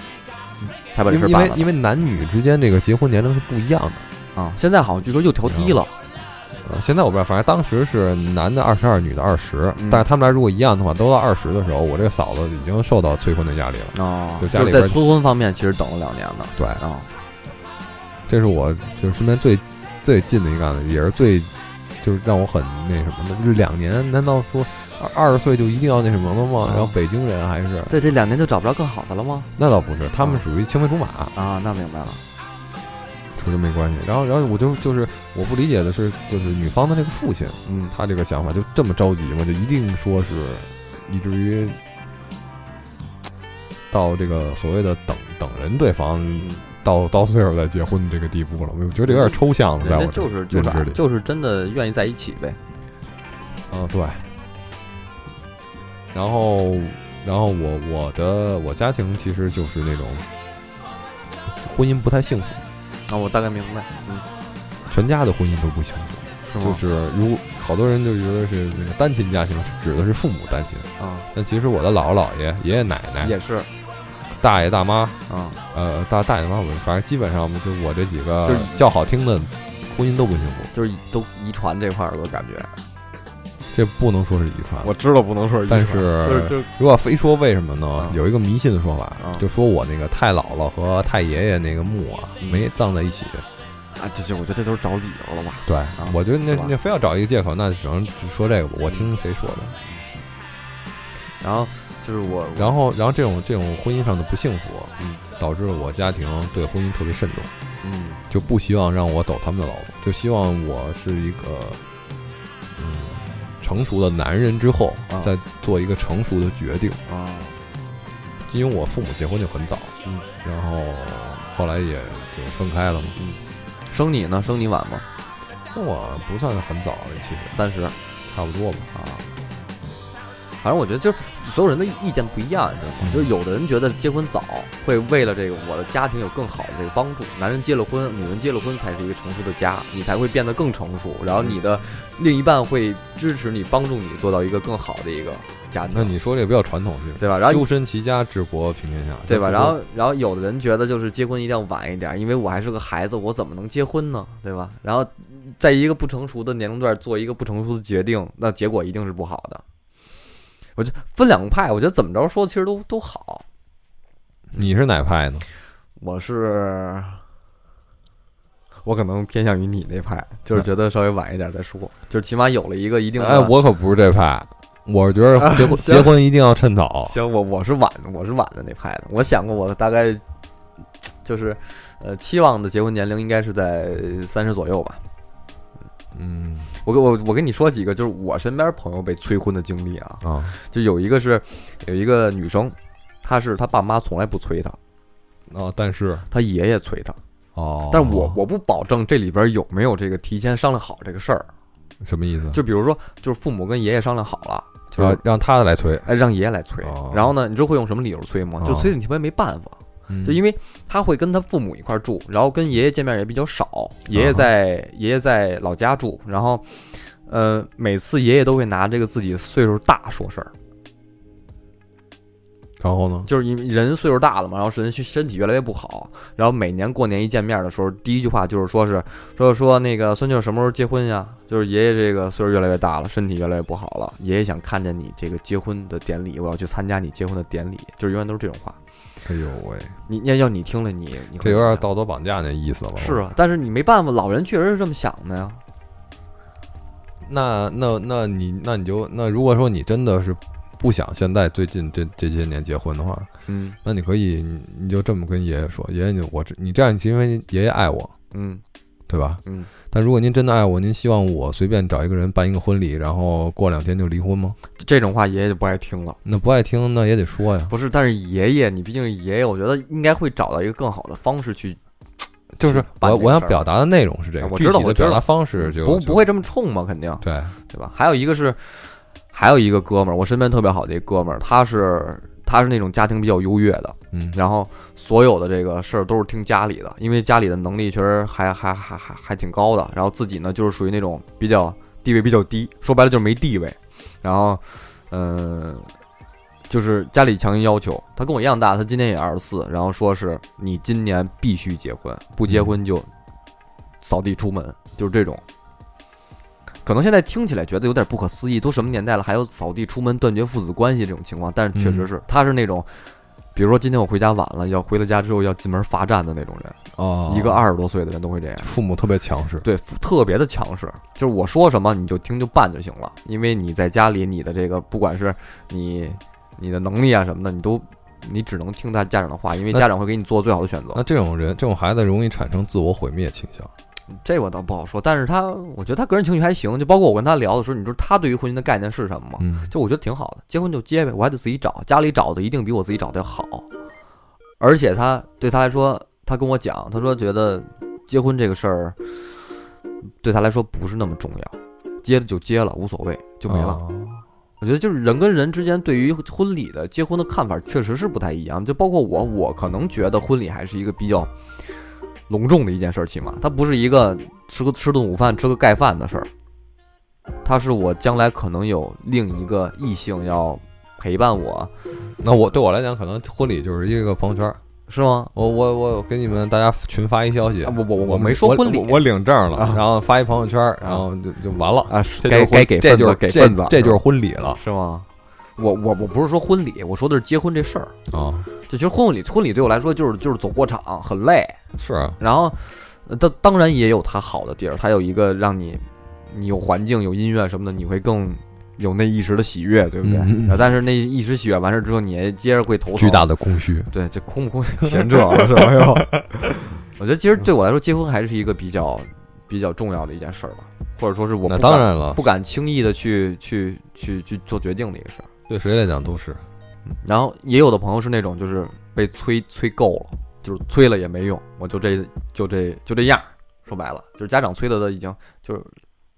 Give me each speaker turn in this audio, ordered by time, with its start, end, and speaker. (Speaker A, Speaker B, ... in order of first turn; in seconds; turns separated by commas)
Speaker A: 0.9-1.7, Speaker B: 1.1-4.1, Speaker A: 4.4-5.9, Speaker B: 5.5-5.8, Speaker B: 6.6-15.0, Speaker A: 9.8-10.1, Speaker A: 13.9-17.1, Speaker B: 18.3-27.9, Speaker A: 26.6-26.9, Speaker A: 27.9-29.5, Speaker B: 29.6-31.3, Speaker A: 31.4-32.2, Speaker B: 33.4-41.8, Speaker A: 37.7-37.9, Speaker B: 43.9-51.0, Speaker A: 46.4-46.6, Speaker A: 49.0-52.6, Speaker B: 53.7-54.3, Speaker B: 56.1-60.3, Speaker B: 61.5-62.6, Speaker A: 63.1-64.3, Speaker B: 64.9-73.3, Speaker A: 66.5-66.8, Speaker A: 71.0-71.3, Speaker A: 73.2-73.7, Speaker B: 74.3-75.2, Speaker A: 75.3-75.6, Speaker B: 75.7-80.7, Speaker A: 78.5-78.8, Speaker A: 80.7-82.8, Speaker B: 83.7-84.9, Speaker A: 84.8-86.7, Speaker B: 85.7-93.5, Speaker A: 94.0-96.7, Speaker B: 95.7-99.8, Speaker A: 101.4-102.8, Speaker B: 102.6-107.5, Speaker A: 107.8-108.2, Speaker B: 108.3-111.8, Speaker B: 112.8-117.0, Speaker A: 117.1-117.5, Speaker B: 118.5-123.2, Speaker A: 123.2-125.1, Speaker B: 125.7-127.6, Speaker A: 127.5-128.0, Speaker B: 128.3-128.9, Speaker A: 128.9-129.3, Speaker A: 130.6-146.1, Speaker B: 133.0-133.3, Speaker B: 145.9-149.8, Speaker A: 147.2-147.7, Speaker A: 149.3-159.6, Speaker A: 160.8-163.4, Speaker B: 164.5-165.5, Speaker A: 166.0-167.2, Speaker A: 168.8-173.5, Speaker B: 173.2-177.2, Speaker A: 175.4-176.1, Speaker A: 177.1-180.2, Speaker A: 181.1-185.1, Speaker B: 186.1-186.7, Speaker A: 186.8-194.8, Speaker B: 190.2-190.6, Speaker B: 195.5-196.3, Speaker A: 196.3-197.2, Speaker B: 197.6-198.4, Speaker A: 197.9-201.5, Speaker B: 202.0-202.6, Speaker A: 202.5-205.2, Speaker B: 205.0-206.1, Speaker A: 206.1-220.5, Speaker B: 206.8-207.3, Speaker B: 208.6-208.9, Speaker B: 210.1-210.4, Speaker B: 214.1-214.5, Speaker B: 222.8-223.3, Speaker A: 223.3-238.8, Speaker B: 239.2-239.9, Speaker A: 240.1-241.8, Speaker B: 241.4-243.2, Speaker A: 243.0-245.6, Speaker B: 247.3-253.3, Speaker A: 253.5-253.8, Speaker B: 253.8-258.1, Speaker A: 258.3-258.6, Speaker B: 259.1-264.6, Speaker A: 259.4-259.7, Speaker A: 264.8-266.2, Speaker B: 266.2-267.7, Speaker A: 267.7-271.8, Speaker B: 272.6-276.2, Speaker A: 272.6-273.7, Speaker A: 274.4-295.9, Speaker B: 277.2-277.6, Speaker B: 284.1-284.4, Speaker A: 296.7-303.1, Speaker B: 302.5-302.7, Speaker A: 304.0-305.4, Speaker A: 306.9-318.7, Speaker B: 311.8-312.1, Speaker B: 316.9-317.7, Speaker B: 318.6-319.7, Speaker A: 319.6-331.0, Speaker B: 330.9-333.7, Speaker A: 334.1-343.7, Speaker B: 339.4-339.7, Speaker A: 344.6-349.2, Speaker A: 350.2-353.8, Speaker B: 353.5-354.2, Speaker A: 354.6-361.3, Speaker A: 362.3-366.3, Speaker A: 367.4-371.7, Speaker B: 372.2-374.6, Speaker A: 374.9-375.3, Speaker B: 375.3-384.6, Speaker A: 377.6-379.8, Speaker A: 381.9-384.0, Speaker A: 384.5-387.9, Speaker B: 388.1-388.5, Speaker A: 388.7-391.6, Speaker B: 391.8-392.2, Speaker A: 392.2-403.3, Speaker B: 400.0-400.6, Speaker B: 403.0-403.9, Speaker A: 403.9-415.3, Speaker B: 411.5-412.2, Speaker B: 415.5-416.4, Speaker A: 417.0-425.7